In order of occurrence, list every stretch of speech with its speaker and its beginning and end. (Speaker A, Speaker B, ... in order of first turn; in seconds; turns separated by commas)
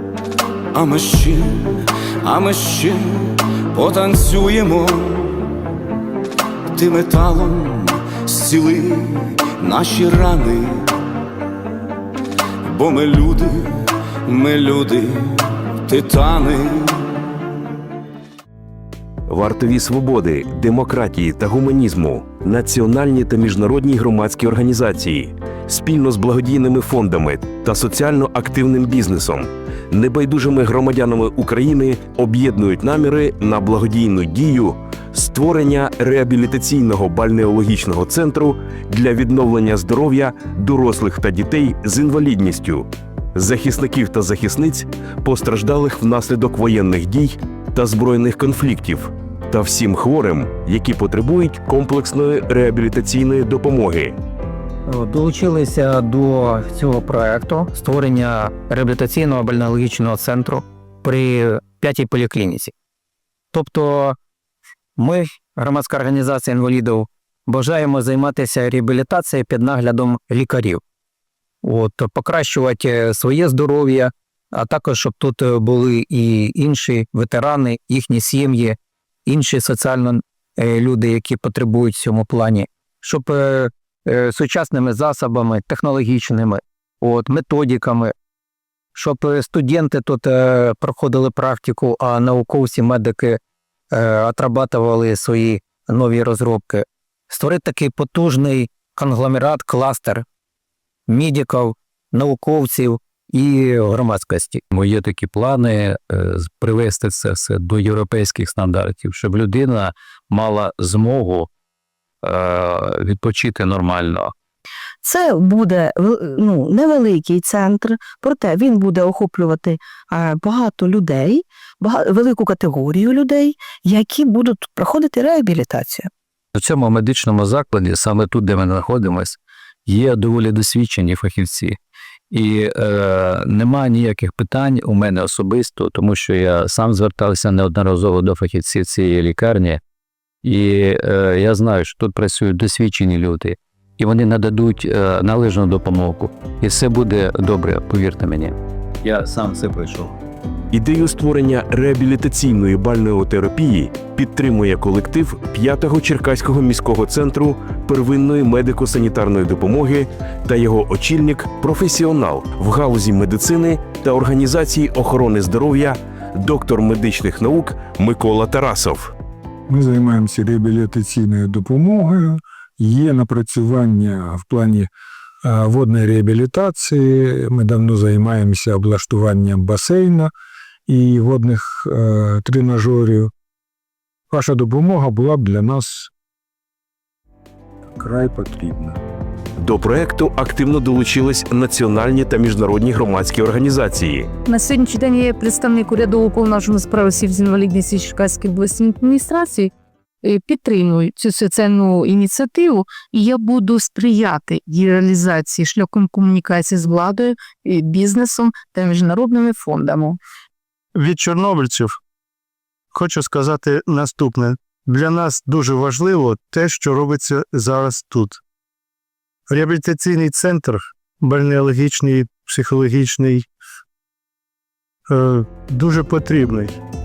Speaker A: 0.7-5.5, Speaker A: 6.7-11.0, Speaker A: 12.6-17.2, Speaker B: 19.3-54.2, Speaker C: 54.9-62.7, Speaker C: 63.5-64.2, Speaker C: 65.0-70.8, Speaker C: 71.6-88.1, Speaker C: 88.9-93.4, Speaker C: 93.9-100.2, Speaker C: 101.1-104.6, Speaker D: 104.7-111.5, Speaker D: 112.2-114.3, Speaker E: 115.0-126.1, Speaker D: 126.5-131.8, Speaker D: 132.3-139.8, Speaker D: 140.4-150.1, Speaker B: 150.7-169.1, Speaker F: 169.7-174.9, Speaker F: 175.4-180.3, Speaker F: 180.9-183.3, Speaker F: 184.3-186.1, Speaker F: 188.0-189.0, Speaker B: 189.6-194.3, Speaker G: 194.5-199.7, Speaker G: 200.2-210.1, Speaker H: 210.9-211.9, Speaker H: 212.9-218.4, Speaker H: 219.5-223.4, Speaker H: 225.1-226.8